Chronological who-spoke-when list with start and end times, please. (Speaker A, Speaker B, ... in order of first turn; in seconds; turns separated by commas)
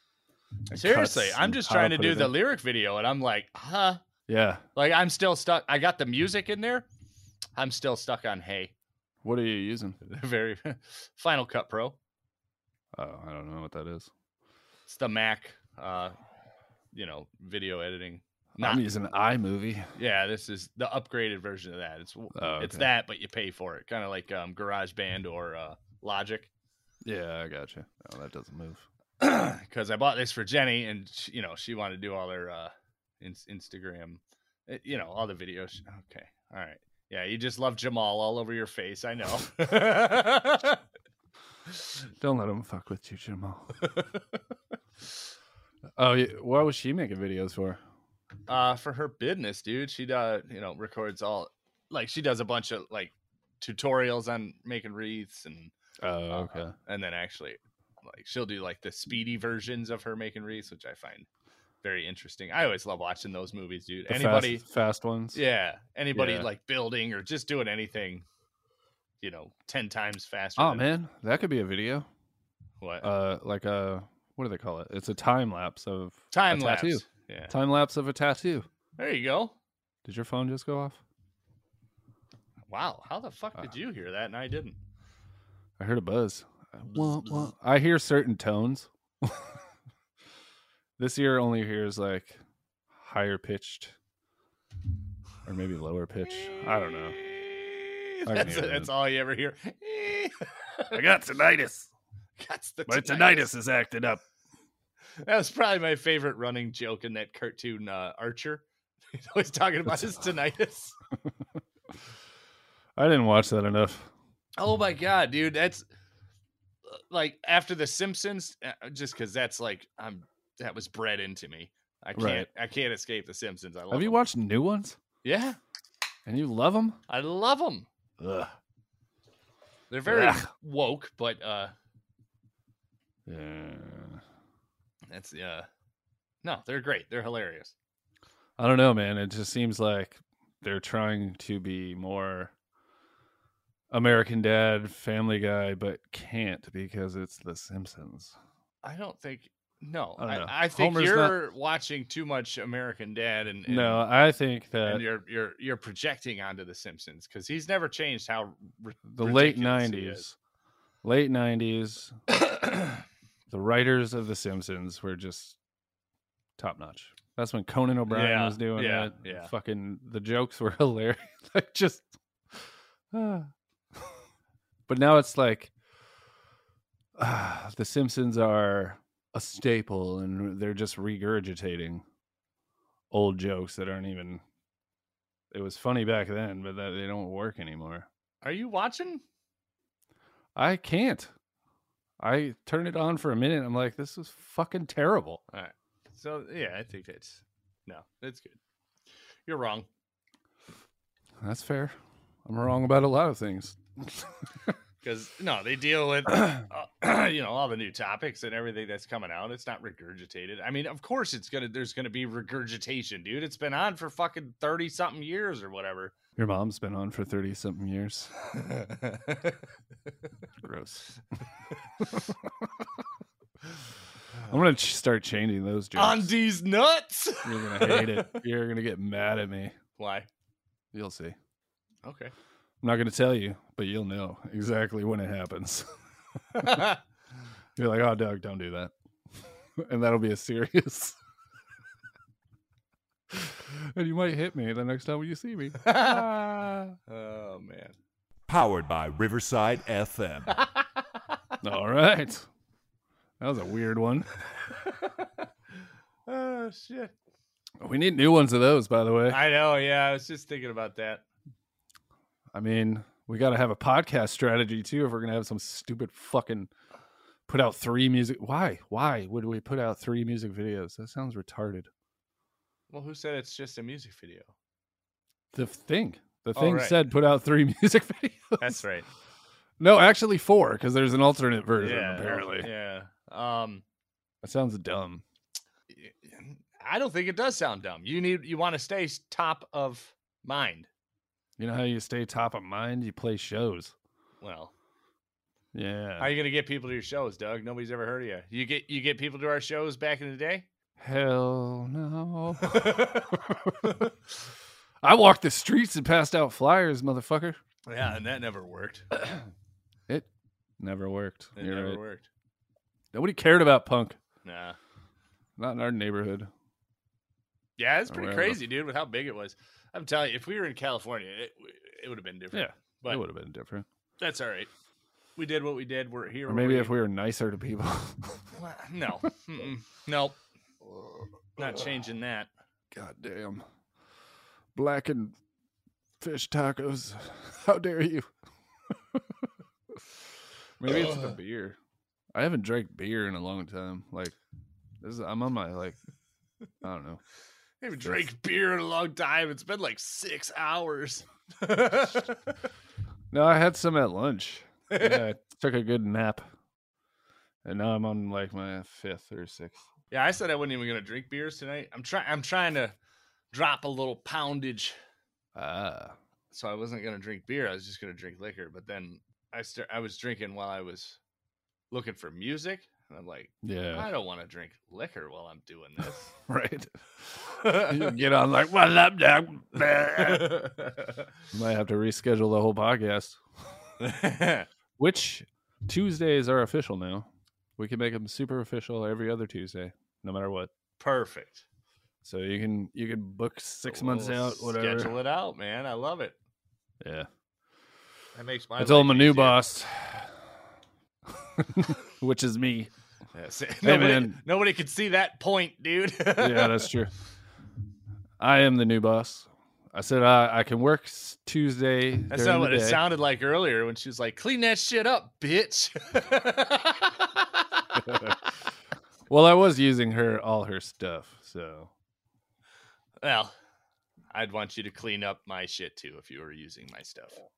Speaker A: 0.7-2.4, Speaker B: 0.7-4.0, Speaker A: 4.3-4.6, Speaker B: 4.8-6.9, Speaker B: 7.6-8.7, Speaker A: 9.2-10.0, Speaker B: 10.0-12.0, Speaker A: 12.9-14.1, Speaker B: 14.9-16.1, Speaker B: 16.9-18.8, Speaker A: 18.6-19.9, Speaker B: 20.0-26.5, Speaker A: 22.4-22.9, Speaker A: 27.0-28.9, Speaker B: 29.2-40.8, Speaker A: 42.2-43.8, Speaker A: 46.0-47.8, Speaker B: 48.5-55.7, Speaker A: 56.0-56.8, Speaker B: 56.3-61.3, Speaker B: 61.8-64.6, Speaker A: 64.1-65.4, Speaker B: 65.3-68.2, Speaker A: 66.1-66.5, Speaker B: 69.2-70.9, Speaker A: 70.6-72.1, Speaker B: 72.8-73.1, Speaker A: 73.0-78.7, Speaker B: 76.3-77.5, Speaker B: 79.0-79.5, Speaker A: 80.0-81.0, Speaker B: 82.7-84.8, Speaker A: 85.8-89.5, Speaker A: 91.0-92.4, Speaker A: 92.9-94.0, Speaker A: 95.5-97.2, Speaker B: 96.3-100.9, Speaker A: 98.3-98.9, Speaker A: 100.9-101.9, Speaker B: 102.4-103.5, Speaker A: 102.9-104.2, Speaker B: 105.2-111.0, Speaker A: 113.0-114.1, Speaker B: 114.6-115.8, Speaker B: 116.9-124.2, Speaker A: 122.2-122.5, Speaker A: 123.9-125.0, Speaker B: 125.2-125.6, Speaker A: 126.2-127.0, Speaker B: 127.1-127.9, Speaker A: 128.2-128.5, Speaker B: 129.9-131.7, Speaker A: 130.1-130.5, Speaker A: 133.2-134.2, Speaker B: 135.1-135.7, Speaker B: 136.4-137.7, Speaker A: 138.6-142.5, Speaker A: 143.9-148.4, Speaker B: 148.8-154.0, Speaker A: 150.2-151.4, Speaker A: 153.7-155.1, Speaker B: 154.8-160.2, Speaker A: 159.1-160.3, Speaker A: 161.0-162.9, Speaker A: 163.5-165.6, Speaker A: 166.6-173.5, Speaker B: 168.1-169.5, Speaker A: 174.9-175.7, Speaker A: 177.2-182.0, Speaker A: 183.1-184.4, Speaker A: 185.5-188.1, Speaker B: 188.4-189.2, Speaker A: 190.5-191.3, Speaker A: 192.2-195.4, Speaker B: 195.5-198.6, Speaker B: 199.5-199.9, Speaker A: 201.4-204.3, Speaker B: 205.0-216.1, Speaker A: 216.4-218.3, Speaker B: 218.5-219.6, Speaker A: 220.6-221.1, Speaker A: 222.0-222.7, Speaker A: 224.5-226.3, Speaker B: 225.9-228.4, Speaker A: 227.4-229.8, Speaker B: 230.0-230.3, Speaker A: 230.9-231.4, Speaker B: 232.0-232.3, Speaker A: 232.8-235.9, Speaker A: 236.6-236.8, Speaker B: 236.6-237.0, Speaker A: 237.8-238.9, Speaker A: 239.8-241.2, Speaker A: 243.3-246.9, Speaker B: 245.8-247.9, Speaker C: 248.5-250.5, Speaker B: 250.6-250.8, Speaker A: 251.6-252.5, Speaker A: 253.4-254.3, Speaker B: 254.9-255.3, Speaker B: 256.2-257.1, Speaker A: 257.8-259.4, Speaker B: 259.3-261.2, Speaker A: 262.5-266.7, Speaker A: 267.5-271.9, Speaker B: 272.9-274.5, Speaker A: 275.5-278.8, Speaker B: 276.5-277.0, Speaker B: 278.6-279.1, Speaker A: 279.8-282.7, Speaker B: 281.8-283.8, Speaker A: 284.4-285.2, Speaker B: 285.9-290.9, Speaker A: 291.6-293.9, Speaker B: 294.4-294.7, Speaker A: 295.7-296.4, Speaker B: 296.2-300.7, Speaker A: 301.0-304.0, Speaker B: 302.6-304.0, Speaker A: 305.0-307.6, Speaker B: 307.9-309.1, Speaker A: 310.8-312.0, Speaker B: 311.6-312.3, Speaker A: 313.1-314.2, Speaker B: 314.4-314.8, Speaker A: 315.6-316.5, Speaker B: 317.8-323.2, Speaker A: 318.1-318.6, Speaker A: 322.5-323.9, Speaker B: 324.2-324.7, Speaker B: 325.4-327.0, Speaker A: 326.5-328.4, Speaker B: 328.5-330.4, Speaker B: 331.6-332.5, Speaker A: 332.9-333.6, Speaker A: 334.8-335.4, Speaker A: 336.2-338.3, Speaker A: 340.8-341.8, Speaker B: 340.9-341.3, Speaker A: 342.3-344.4, Speaker A: 345.0-346.0, Speaker A: 346.8-347.2, Speaker B: 347.8-352.5, Speaker A: 348.0-348.3, Speaker A: 353.3-356.4, Speaker B: 354.9-355.2, Speaker A: 357.6-359.9, Speaker B: 360.1-362.9, Speaker B: 363.5-364.9, Speaker A: 365.5-366.1, Speaker B: 366.5-371.2, Speaker B: 371.9-376.3, Speaker A: 373.6-374.1, Speaker A: 376.5-380.6, Speaker B: 377.6-378.1, Speaker B: 380.2-381.1, Speaker A: 381.5-383.4, Speaker B: 384.0-384.7, Speaker A: 385.0-390.7, Speaker B: 391.0-391.6, Speaker A: 392.2-395.2, Speaker B: 393.9-396.4, Speaker A: 397.0-397.3, Speaker B: 398.4-399.6, Speaker A: 398.8-400.4, Speaker A: 401.3-402.9, Speaker B: 403.4-406.9, Speaker A: 403.8-404.4, Speaker A: 406.4-407.1, Speaker A: 408.4-413.0, Speaker B: 412.3-418.3, Speaker A: 419.3-421.9, Speaker B: 423.2-423.5, Speaker B: 424.3-427.4